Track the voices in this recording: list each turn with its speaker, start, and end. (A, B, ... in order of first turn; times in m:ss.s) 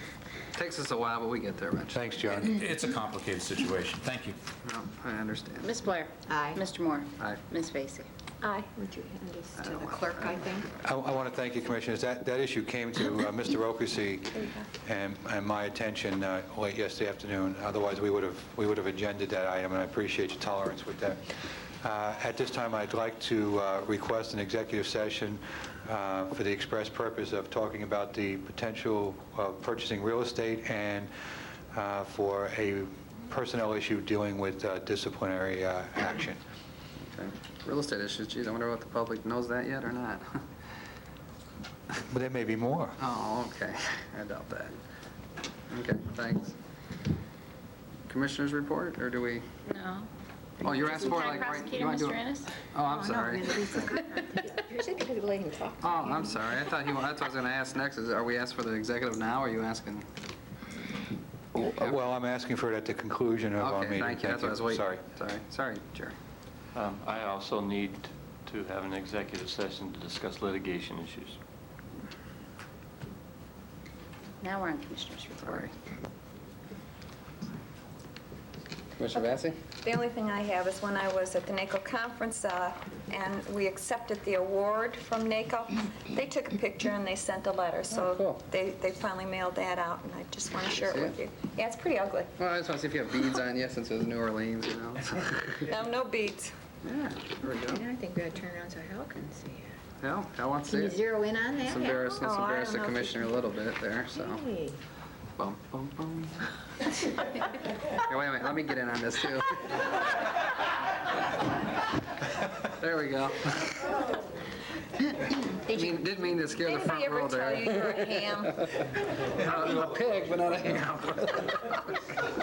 0:00.5-0:02.0 A
0:01.9-0:02.6 B
0:02.4-0:04.4 C
0:04.6-0:05.8 A
0:05.6-0:08.1 D
0:06.2-0:06.6 E
0:08.4-0:08.7 F
0:08.7-0:10.7 E
0:09.6-0:09.9 A
0:10.8-0:31.1 B
0:31.7-0:36.4 B
0:37.0-0:40.4 A
0:42.1-0:43.0 B
0:43.0-0:44.7 A
0:45.7-0:46.6 A
0:48.1-0:49.4 A
0:49.7-0:50.1 D
0:50.6-0:52.5 D
0:50.6-0:53.6 A
0:52.8-0:56.4 E
0:55.8-1:00.1 A
1:01.6-1:02.0 A
1:01.6-1:05.0 B
1:03.6-1:06.2 A
1:06.7-1:11.4 G
1:14.4-1:15.7 D
1:15.4-1:15.7 A
1:19.0-1:19.6 A
1:19.8-1:32.3 F
1:27.9-1:28.4 A
1:30.8-1:31.2 A
1:32.4-1:35.6 A
1:35.6-1:36.5 F
1:36.8-1:37.8 A
1:37.6-1:39.7 E
1:40.0-1:41.0 A
1:40.7-1:42.0 E
1:41.7-1:44.4 A
1:41.9-1:43.3 F
1:44.2-1:44.8 E
1:45.4-1:46.4 A
1:47.9-1:50.0 A
1:52.6-1:54.0 A
1:55.7-2:01.9 A
1:56.5-1:58.8 F